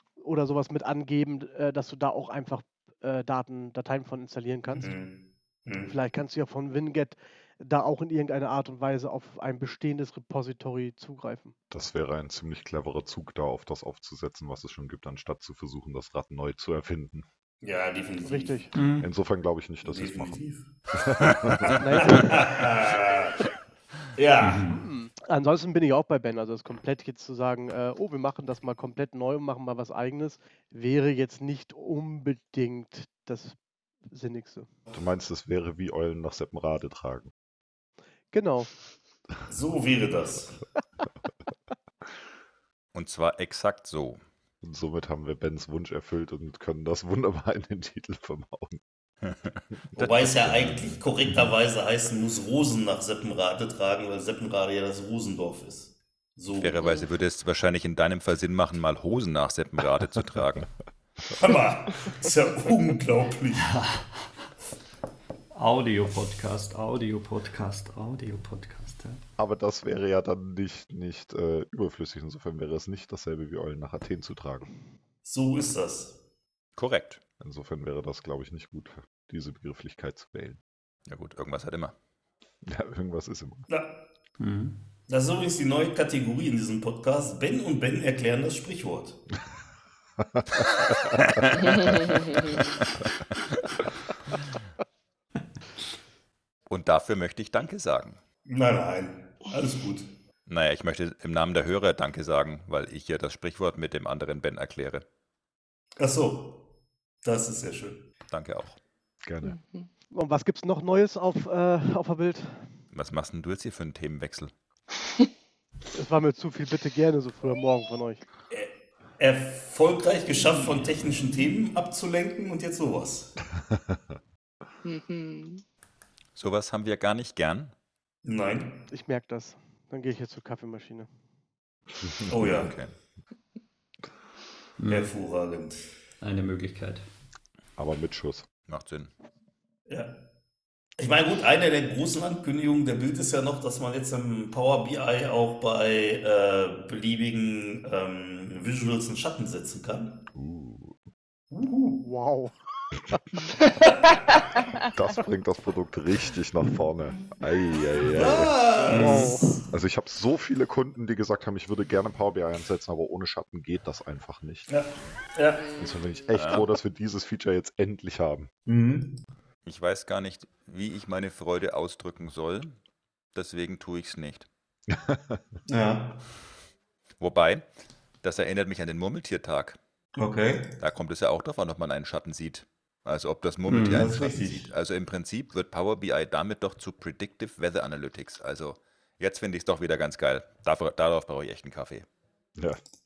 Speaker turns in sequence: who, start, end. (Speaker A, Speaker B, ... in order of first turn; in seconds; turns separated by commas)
Speaker A: 0.2-4.9, Speaker B: 4.8-5.9, Speaker A: 5.8-11.5, Speaker C: 11.7-17.2, Speaker B: 17.6-18.6, Speaker A: 18.2-18.7, Speaker D: 18.7-19.1, Speaker C: 19.0-20.4, Speaker B: 19.8-20.7, Speaker C: 20.9-21.7, Speaker B: 21.6-23.3, Speaker A: 21.8-22.5, Speaker B: 24.1-24.6, Speaker D: 24.4-24.8, Speaker A: 24.7-33.6, Speaker A: 34.1-34.7, Speaker C: 34.9-37.3, Speaker A: 38.3-38.7, Speaker B: 39.5-40.6, Speaker E: 42.9-44.2, Speaker C: 44.6-48.8, Speaker E: 49.2-50.9, Speaker B: 50.0-56.8, Speaker E: 56.6-60.7, Speaker B: 61.3-63.7, Speaker D: 63.6-64.3, Speaker D: 65.5-69.2, Speaker C: 69.4-74.7, Speaker B: 75.2-76.2, Speaker E: 76.8-77.2, Speaker C: 77.4-80.6, Speaker E: 81.1-81.9, Speaker C: 82.6-83.6, Speaker B: 83.7-84.0, Speaker D: 84.4-84.8, Speaker B: 85.1-89.2, Speaker C: 90.2-91.2, Speaker E: 91.2-92.7, Speaker E: 96.7-98.2, Speaker B: 98.5-100.1, Speaker E: 100.5-105.0, Speaker B: 106.0-106.6, Speaker B: 107.2-108.0, Speaker E: 108.3-108.8, Speaker C: 109.2-109.5, Speaker F: 109.4-109.9, Speaker A: 110.1-112.6, Speaker E: 112.9-114.5, Speaker A: 115.9-118.2, Speaker B: 118.5-123.3, Speaker F: 124.8-125.6, Speaker E: 126.3-127.7, Speaker B: 128.2-128.8, Speaker A: 128.9-131.1, Speaker B: 132.3-132.7, Speaker E: 132.5-132.9, Speaker D: 134.8-135.1, Speaker B: 134.9-135.9, Speaker D: 136.2-137.0, Speaker C: 137.8-138.5, Speaker E: 138.7-139.1, Speaker B: 139.9-140.1, Speaker B: 141.0-150.2, Speaker C: 150.3-151.0, Speaker B: 151.5-152.0, Speaker A: 152.0-152.5, Speaker F: 153.6-153.9, Speaker C: 154.9-164.7, Speaker B: 158.1-159.6, Speaker A: 158.8-159.5, Speaker B: 164.7-165.6, Speaker F: 165.6-166.5, Speaker C: 165.8-168.5, Speaker E: 166.3-166.7, Speaker B: 168.7-169.2, Speaker E: 169.7-172.7, Speaker E: 173.3-174.5, Speaker C: 174.9-175.4, Speaker B: 175.7-176.2, Speaker E: 177.2-177.6, Speaker E: 178.2-179.8, Speaker B: 180.2-180.7, Speaker E: 180.8-192.1, Speaker D: 183.7-184.1, Speaker B: 183.9-184.7